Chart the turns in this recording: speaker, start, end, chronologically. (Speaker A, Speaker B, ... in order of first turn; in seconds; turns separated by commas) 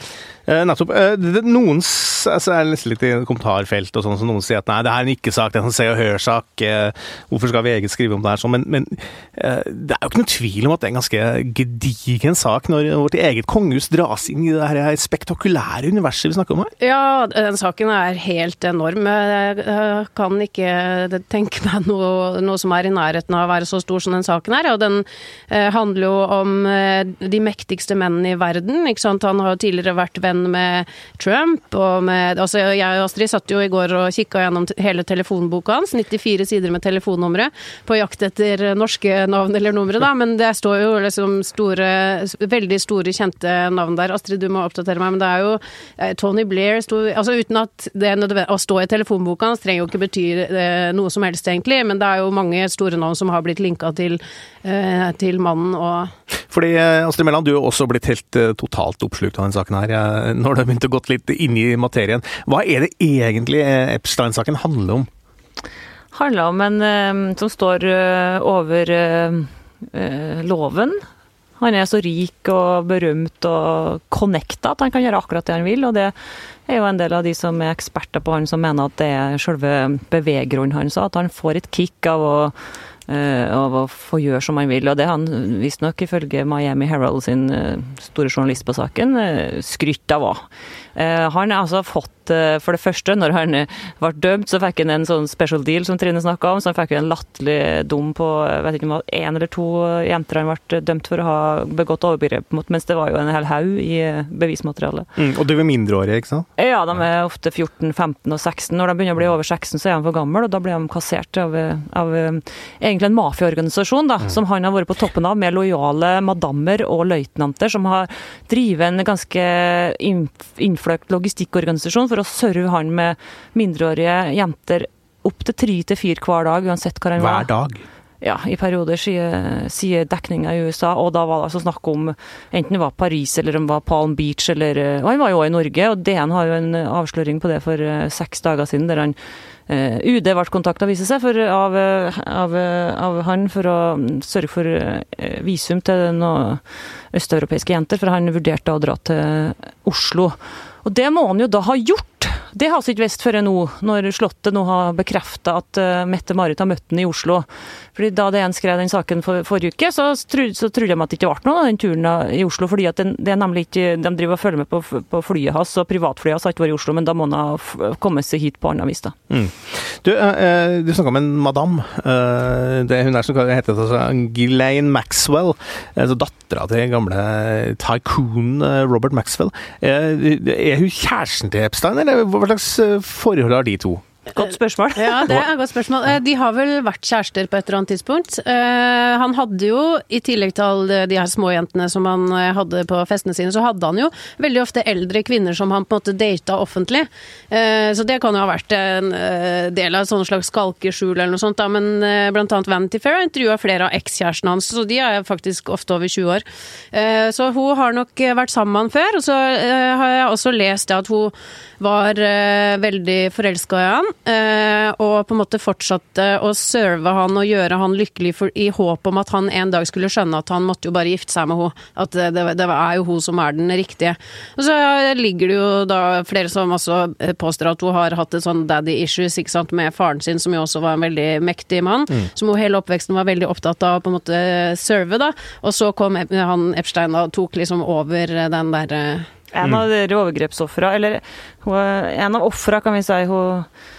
Speaker A: 0.5-16.7, Speaker B: 16.8-56.1, Speaker A: 56.5-65.1, Speaker C: 66.1-71.0, Speaker C: 71.6-76.1, Speaker C: 76.7-82.5, Speaker C: 83.1-105.1, Speaker A: 105.2-106.5, Speaker C: 106.6-127.5, Speaker A: 127.2-127.8, Speaker C: 128.2-139.2, Speaker C: 139.7-169.2, Speaker A: 169.3-184.0, Speaker C: 184.3-185.4, Speaker B: 185.0-239.2, Speaker C: 239.5-243.7